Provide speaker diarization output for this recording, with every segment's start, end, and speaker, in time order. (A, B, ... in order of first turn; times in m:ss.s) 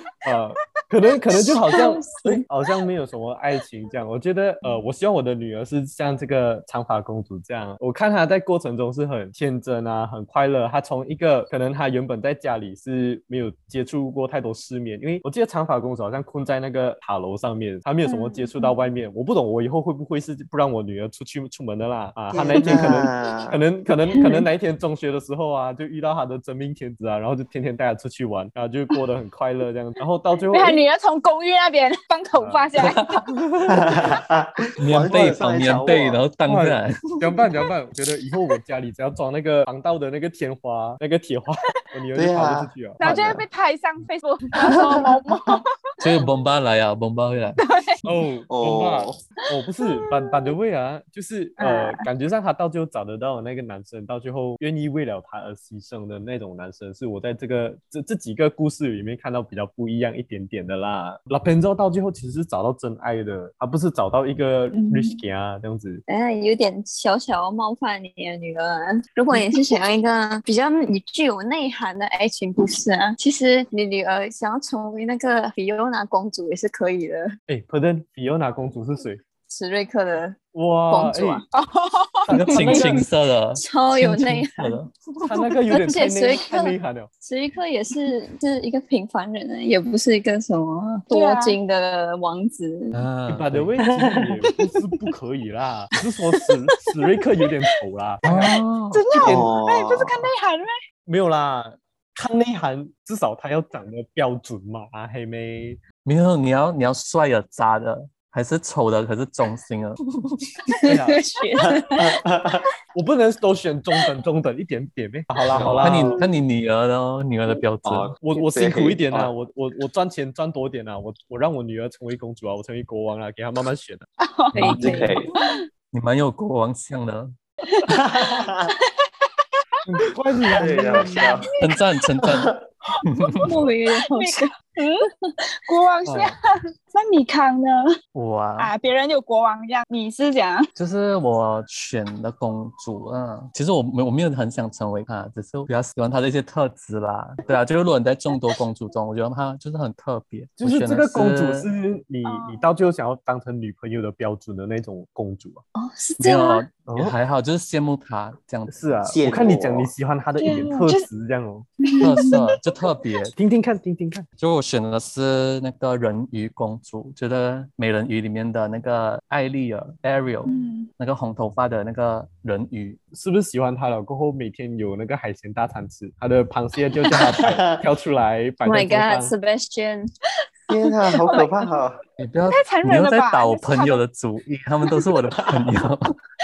0:00.2-0:30.8 A
0:01.7-0:02.4 B
0:18.1-0:18.7 B
0:22.3-0:23.6 C
0:30.5-0:33.2 B
0:32.4-0:32.7 A
0:33.3-0:34.0 A
0:33.7-0:36.2 C
0:34.8-0:37.4 D
0:36.4-0:43.4 A
0:42.2-0:42.7 C
0:43.0-0:46.2 B
0:43.0-0:43.3 D
0:46.0-0:47.6 D
0:47.6-0:48.0 B
0:48.0-1:06.0 A
0:48.5-0:49.2 C
0:51.6-0:52.0 B
1:04.7-1:05.2 B
1:06.1-1:17.3 E
1:17.5-1:19.2 A
1:19.5-1:20.4 E
1:20.5-1:21.4 A
1:20.9-1:21.4 E
1:21.5-1:22.9 B
1:22.2-1:23.1 A
1:22.3-1:25.4 D
1:22.6-1:22.9 E
1:23.6-1:24.8 E
1:25.2-1:27.1 A
1:25.8-1:33.1 E
1:31.1-1:31.6 B
1:32.9-1:33.8 D
1:33.3-1:38.6 A
1:34.1-1:34.4 C
1:38.2-1:39.1 D
1:38.9-1:40.7 B
1:39.2-1:40.3 C
1:39.2-1:39.5 A
1:41.1-1:45.8 A
1:46.0-1:50.5 D
1:50.8-1:51.2 A
1:50.8-1:51.8 B
1:51.6-1:52.7 C
1:52.9-1:56.2 A
1:55.5-1:56.2 C
1:55.8-1:58.2 D
1:57.8-1:59.3 C
1:58.2-2:04.1 A
2:04.2-2:05.6 B
2:04.5-2:05.2 E
2:04.6-2:05.2 D
2:04.8-2:05.3 C
2:05.9-2:07.4 D
2:07.8-2:08.9 B
2:07.9-2:08.7 C
2:09.8-2:11.3 A
2:10.6-2:11.5 C
2:11.6-2:13.7 D
2:12.2-2:12.6 C
2:13.2-2:15.1 B
2:13.4-2:14.5 E
2:15.6-2:16.4 B
2:16.0-2:16.4 A
2:16.9-2:18.0 B
2:18.2-2:18.7 D
2:18.6-2:20.7 B
2:20.8-2:31.7 D
2:30.6-2:35.6 A
2:32.2-2:32.7 B
2:35.8-2:36.6 E
2:36.2-2:38.8 D
2:36.9-2:37.2 A
2:38.7-2:41.7 A
2:39.0-2:39.9 C
2:40.4-2:41.1 B
2:41.8-2:42.5 B
2:42.0-2:43.3 D
2:43.4-2:44.3 A
2:44.4-2:53.0 D
2:50.5-2:50.9 B
2:53.1-2:59.3 A
2:57.1-2:57.8 C
2:58.6-3:00.1 E
3:00.7-3:02.0 C
3:01.3-3:01.7 B
3:02.2-3:06.1 D
3:02.5-3:04.0 B
3:05.4-3:05.7 C